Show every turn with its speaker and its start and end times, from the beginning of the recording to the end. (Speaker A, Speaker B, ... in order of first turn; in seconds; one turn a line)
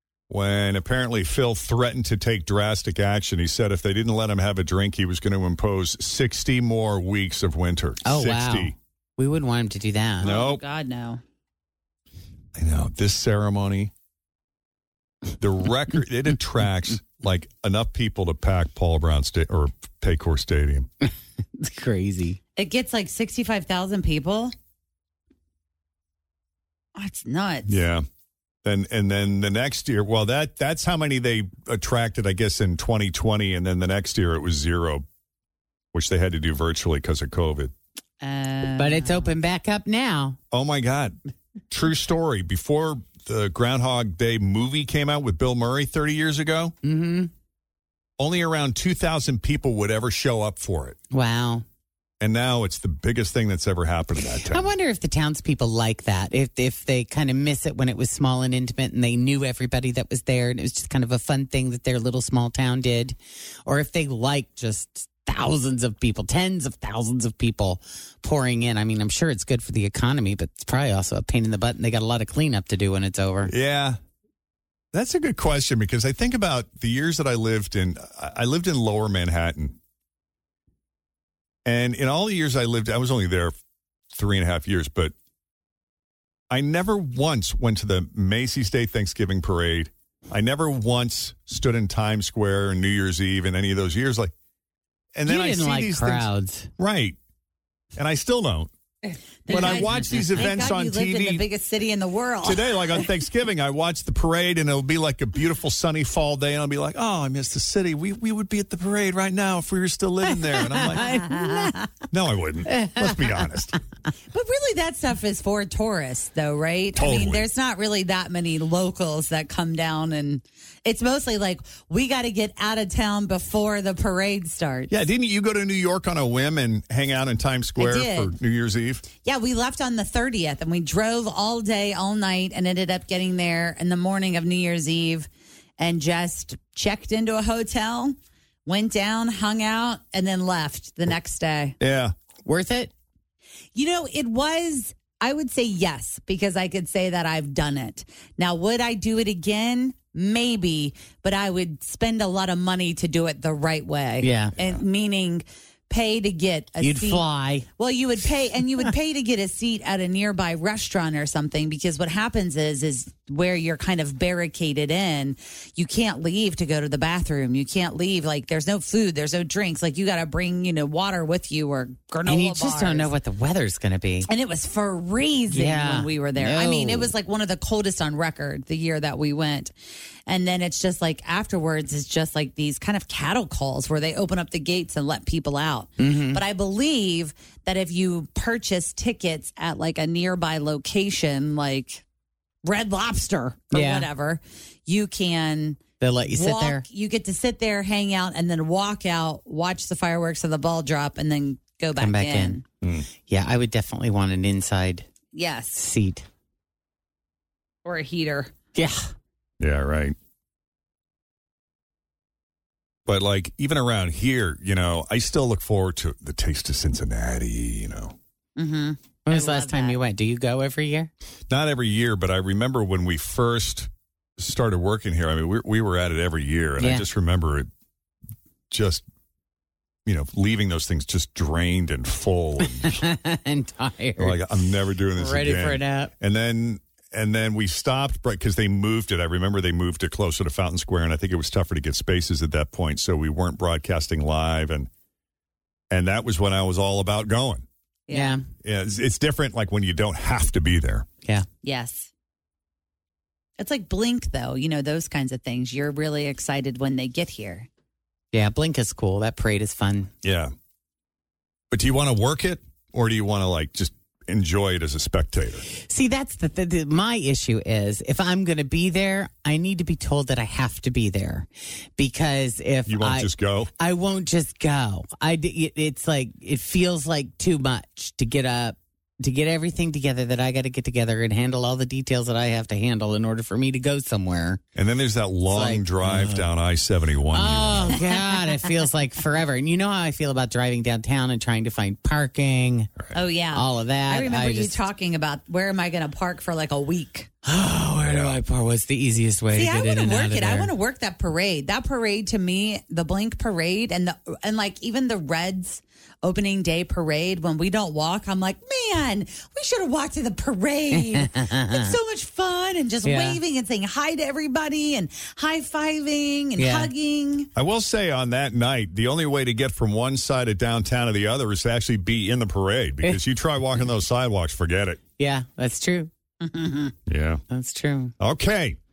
Speaker A: 0.3-8.7
Speaker B: 8.0-10.3
Speaker A: 10.2-10.6
Speaker C: 10.2-11.2
Speaker A: 12.5-13.9
Speaker A: 15.4-20.9
Speaker B: 21.6-22.4
Speaker C: 22.6-24.5
Speaker C: 26.9-27.8
Speaker A: 27.7-28.0
Speaker A: 28.6-35.0
Speaker A: 35.9-37.7
Speaker C: 38.2-39.3
Speaker B: 38.8-40.4
Speaker A: 40.5-41.2
Speaker A: 41.7-46.7
Speaker B: 46.8-47.3
Speaker A: 48.2-51.0
Speaker B: 51.1-51.6
Speaker A: 52.2-54.7
Speaker B: 54.5-73.5
Speaker A: 73.5-74.0
Speaker A: 74.9-79.8
Speaker A: 81.6-83.5
Speaker A: 84.1-85.1
Speaker A: 86.5-94.3
Speaker A: 95.1-97.2
Speaker B: 95.2-96.7
Speaker A: 98.0-98.7
Speaker C: 99.5-103.0
Speaker A: 99.5-101.4
Speaker B: 99.5-100.2
Speaker A: 102.4-111.2
Speaker B: 110.5-111.8
Speaker C: 111.0-111.8
Speaker A: 112.1-113.8
Speaker B: 112.7-113.5
Speaker C: 114.3-124.9
Speaker A: 116.9-117.5
Speaker A: 124.9-129.0
Speaker C: 127.8-128.3
Speaker C: 129.2-135.3
Speaker C: 135.8-138.1
Speaker C: 138.7-141.7
Speaker A: 141.8-142.1
Speaker B: 142.4-142.9
Speaker C: 143.7-157.2
Speaker B: 154.2-154.5
Speaker B: 156.8-157.7
Speaker C: 157.8-173.1
Speaker B: 172.2-174.3
Speaker C: 174.2-179.7
Speaker B: 175.5-177.1
Speaker C: 180.3-192.0
Speaker B: 186.0-186.4
Speaker C: 192.6-202.6
Speaker B: 193.7-194.1
Speaker B: 196.0-196.8
Speaker B: 202.0-202.6
Speaker A: 202.8-203.1
Speaker B: 203.2-205.1
Speaker C: 205.3-205.8
Speaker B: 205.8-206.2
Speaker C: 207.8-208.5
Speaker B: 208.8-209.1
Speaker A: 209.6-210.2
Speaker A: 213.1-218.2
Speaker C: 218.6-220.0
Speaker B: 219.3-221.1
Speaker A: 221.5-227.7
Speaker B: 226.8-227.1
Speaker A: 228.7-229.0
Speaker A: 230.1-233.0
Speaker B: 232.8-234.4
Speaker A: 234.2-244.9
Speaker B: 235.2-236.1
Speaker A: 245.9-247.6
Speaker C: 248.1-248.4
Speaker B: 248.1-248.4
Speaker A: 248.6-251.1
Speaker C: 251.6-252.1
Speaker C: 253.6-257.7
Speaker B: 258.3-260.1
Speaker A: 260.2-260.5
Speaker A: 261.7-265.6
Speaker B: 265.8-284.6
Speaker A: 272.9-273.7
Speaker A: 284.7-287.9
Speaker B: 285.5-286.4
Speaker B: 287.3-292.9
Speaker C: 293.1-297.3
Speaker B: 293.5-294.8
Speaker B: 297.4-300.7
Speaker A: 298.0-298.4
Speaker C: 299.5-317.5
Speaker B: 310.9-311.9
Speaker B: 313.0-313.4
Speaker B: 316.6-316.9
Speaker A: 317.5-325.0
Speaker B: 325.2-326.1
Speaker C: 326.4-326.9
Speaker A: 327.1-327.4
Speaker B: 327.5-328.1
Speaker A: 328.2-328.8